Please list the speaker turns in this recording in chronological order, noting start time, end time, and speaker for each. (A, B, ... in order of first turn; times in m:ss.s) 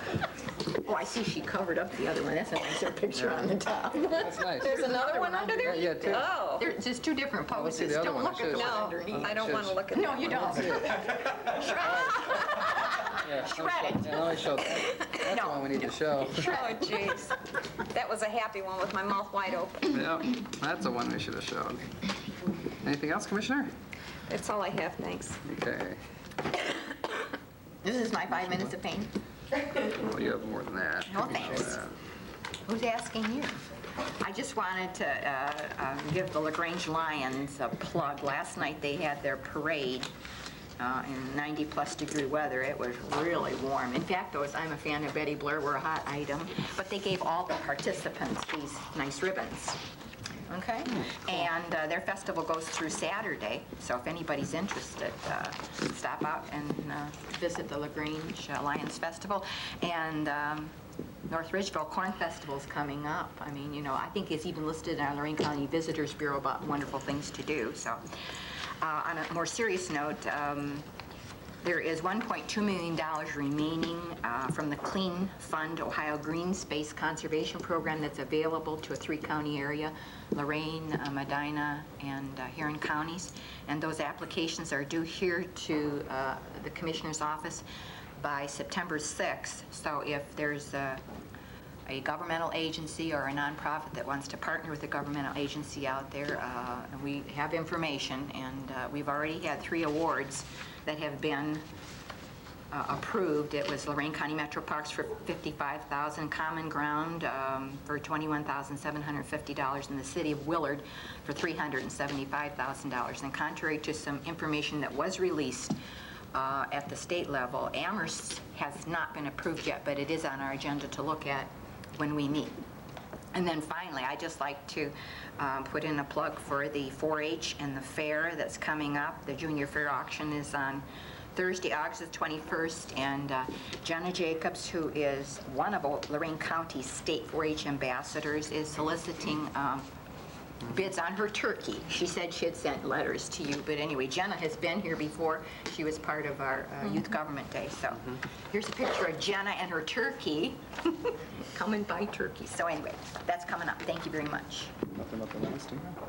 0:00.7-0:14.5 A
0:04.1-0:06.7 B
0:04.2-0:04.8 C
0:05.6-0:06.3 C
0:07.5-0:11.0 C
0:08.5-0:10.5 B
0:13.2-0:16.5 C
0:15.2-0:17.2 A
0:16.4-0:17.4 B
0:17.9-0:19.9 B
0:19.9-0:21.8 C
0:22.8-0:23.7 C
0:24.3-0:25.4 B
0:25.4-0:26.0 C
0:27.8-0:29.1 A
0:29.8-0:31.9 C
0:31.1-0:31.8 A
0:32.6-0:33.6 A
0:34.2-0:40.1 A
0:40.8-0:49.8 A
0:50.5-1:00.7 A
1:01.3-1:10.9 A
1:11.6-1:27.6 A
1:28.2-1:31.0 A
1:31.9-1:41.6 A
1:42.7-1:55.8 A
1:56.3-2:02.6 A
2:03.3-2:19.9 A
2:20.6-2:34.8 A
2:35.0-2:36.0 C